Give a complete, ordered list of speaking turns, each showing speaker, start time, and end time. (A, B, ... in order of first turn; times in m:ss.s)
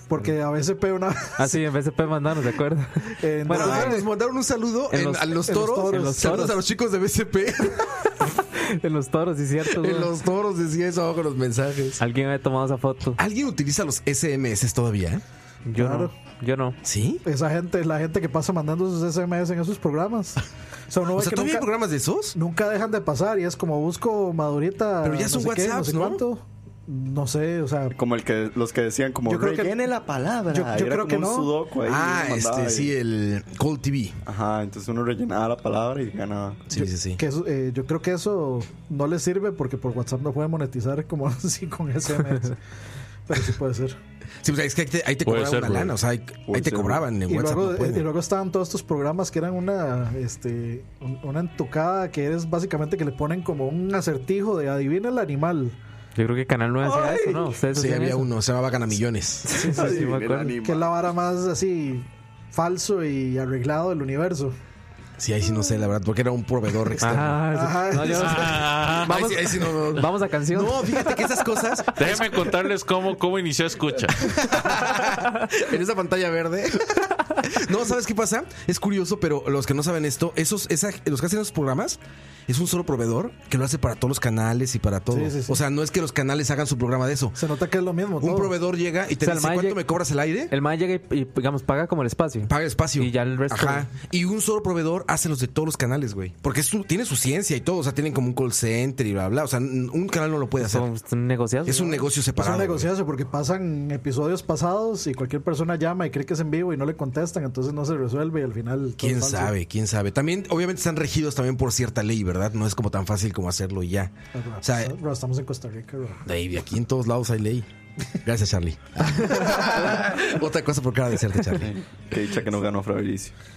0:00.1-0:01.6 A
0:01.4-0:04.1 B
0:03.2-0:04.1 A
0:03.5-0:08.1 C
0:04.9-0:06.6 B
0:05.5-0:06.5 A
0:08.5-0:10.1 B
0:09.6-0:12.0 C
0:12.0-0:13.2 B
0:13.2-0:15.2 C
0:15.7-0:16.8 B
0:15.8-0:16.1 A
0:16.8-0:17.2 C
0:17.2-0:21.7 A
0:21.1-0:22.4 C
0:22.3-0:28.0 A
0:25.0-0:26.2 C
0:27.9-0:32.9 D
0:29.3-0:29.8 A
0:30.5-0:31.6 A
0:31.8-0:34.2 C
0:34.3-0:36.7 D
0:36.7-0:37.2 C
0:36.7-0:42.6 A
0:43.3-0:44.0 A
0:44.4-0:48.1 C
0:45.2-0:45.9 E
0:46.5-0:47.1 D
0:47.3-0:55.8 A
0:56.2-0:58.3 B
0:56.8-0:57.6 D
0:57.7-0:59.6 C
0:59.4-1:00.5 B
0:59.5-1:04.6 A
0:59.7-1:00.9 D
1:05.2-1:07.5 C
1:07.0-1:11.2 B
1:07.4-1:08.6 A
1:08.1-1:09.3 E
1:08.4-1:12.6 C
1:12.0-1:14.4 E
1:14.2-1:27.4 C
1:25.1-1:25.6 A
1:27.4-1:28.5 A
1:28.2-1:30.5 C
1:29.2-1:29.8 B
1:30.5-1:33.9 B
1:32.5-1:40.9 C
1:40.6-1:42.0 B
1:41.6-1:42.9 C
1:42.4-1:49.5 A
1:49.0-1:55.0 C
1:54.3-1:56.2 A
1:56.3-1:57.7 C
1:58.2-2:01.8 C
2:01.6-2:03.3 D